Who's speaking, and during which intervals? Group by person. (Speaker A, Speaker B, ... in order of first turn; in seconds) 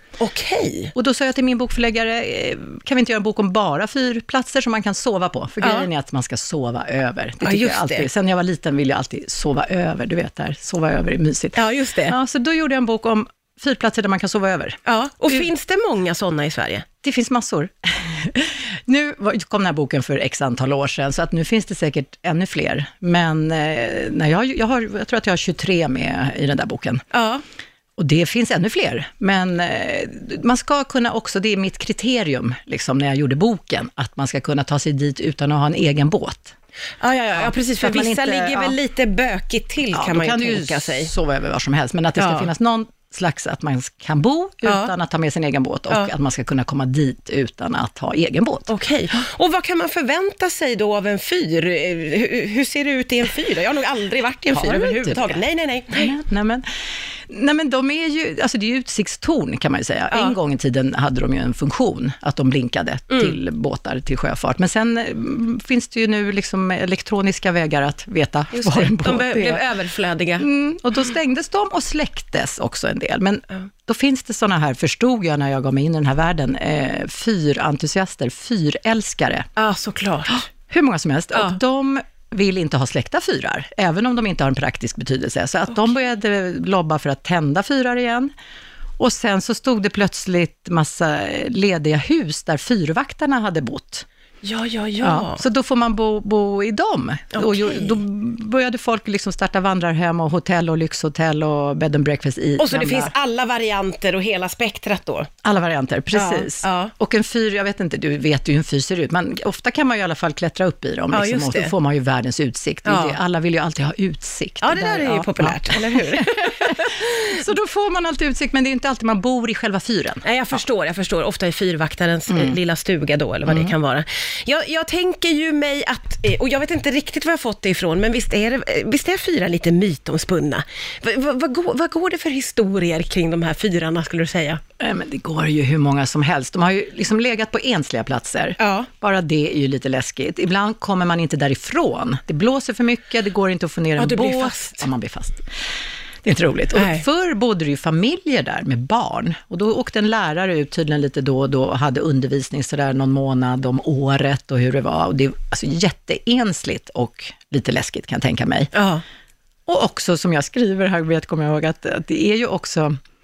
Speaker A: 0.2-0.9, 5.6-5.9, 7.4-8.1, 11.5-12.2, 14.8-16.8, 27.1-27.4, 37.0-41.1, 42.2-42.5, 44.6-44.9, 48.7-56.1, 63.1-63.4, 68.5-70.4, 79.6-80.4, 94.4-95.4, 97.3-97.9, 102.6-105.3, 106.1-106.9, 111.1-111.7, 112.8-113.2, 114.6-117.3, 120.2-134.6, 138.6-138.9, 144.0-144.8, 146.7-147.0, 158.7-159.0
Speaker B: 0.9-15.5, 17.0-27.0, 28.0-36.5, 37.4-38.8, 39.9-48.7, 54.5-55.4, 55.9-56.6, 57.3-69.6, 70.4-79.5, 80.3-88.3, 89.0-94.0, 95.0-103.1, 105.4-120.2, 122.3-122.6, 123.5-123.7, 134.8-145.5, 146.2-158.7, 159.7-162.9